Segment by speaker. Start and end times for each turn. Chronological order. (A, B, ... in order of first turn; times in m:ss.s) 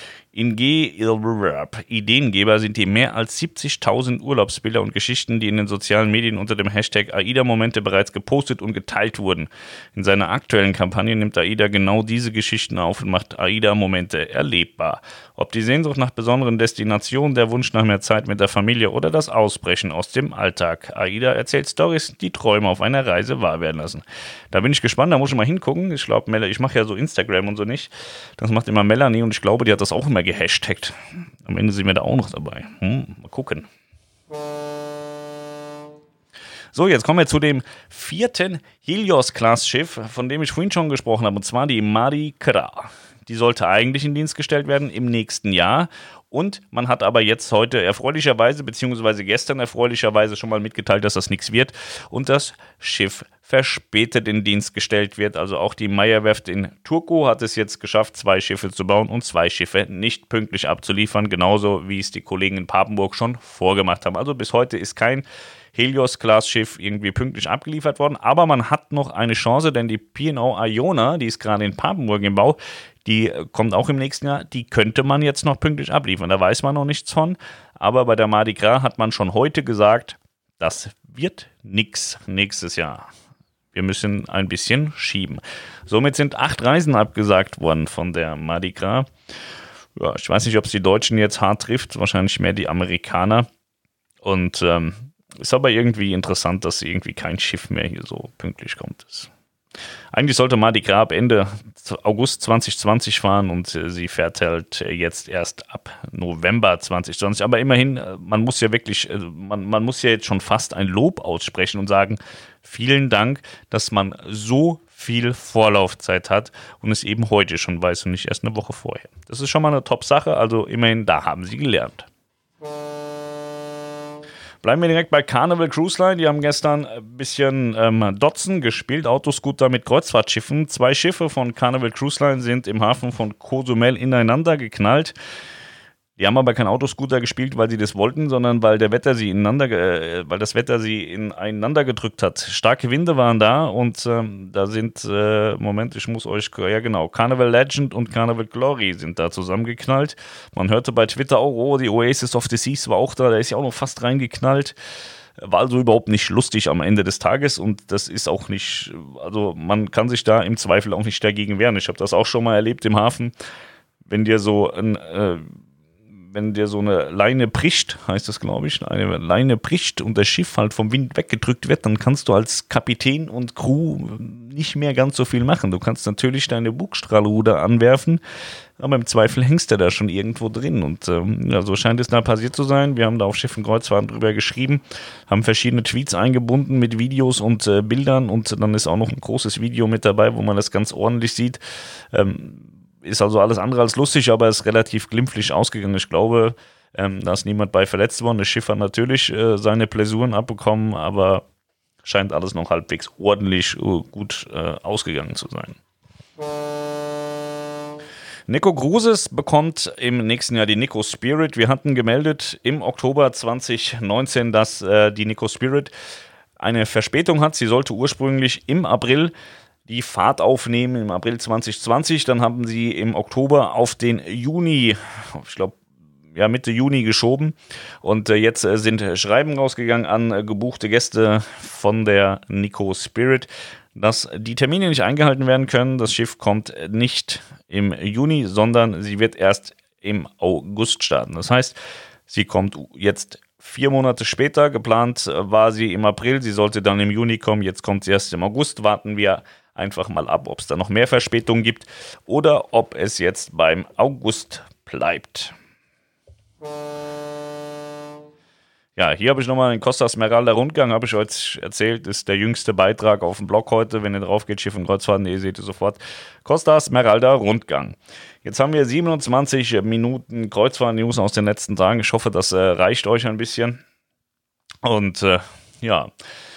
0:00.3-0:33.7 A
0:36.7-1:23.1 A
1:23.7-1:29.1 A
1:30.0-1:33.5 A
1:34.2-1:39.3 A
1:40.1-2:02.1 A
2:04.6-2:15.1 A
2:16.2-2:34.8 A
2:35.4-2:43.3 A
2:44.0-2:45.4 A
2:46.3-2:58.2 A
2:58.8-3:11.6 A
3:12.1-3:21.4 A
3:22.0-3:25.8 A
3:28.5-3:35.9 A
3:36.6-3:39.3 A
3:39.8-3:45.8 A
3:46.3-4:15.5 A
4:19.0-4:33.8 A
4:34.8-4:36.1 A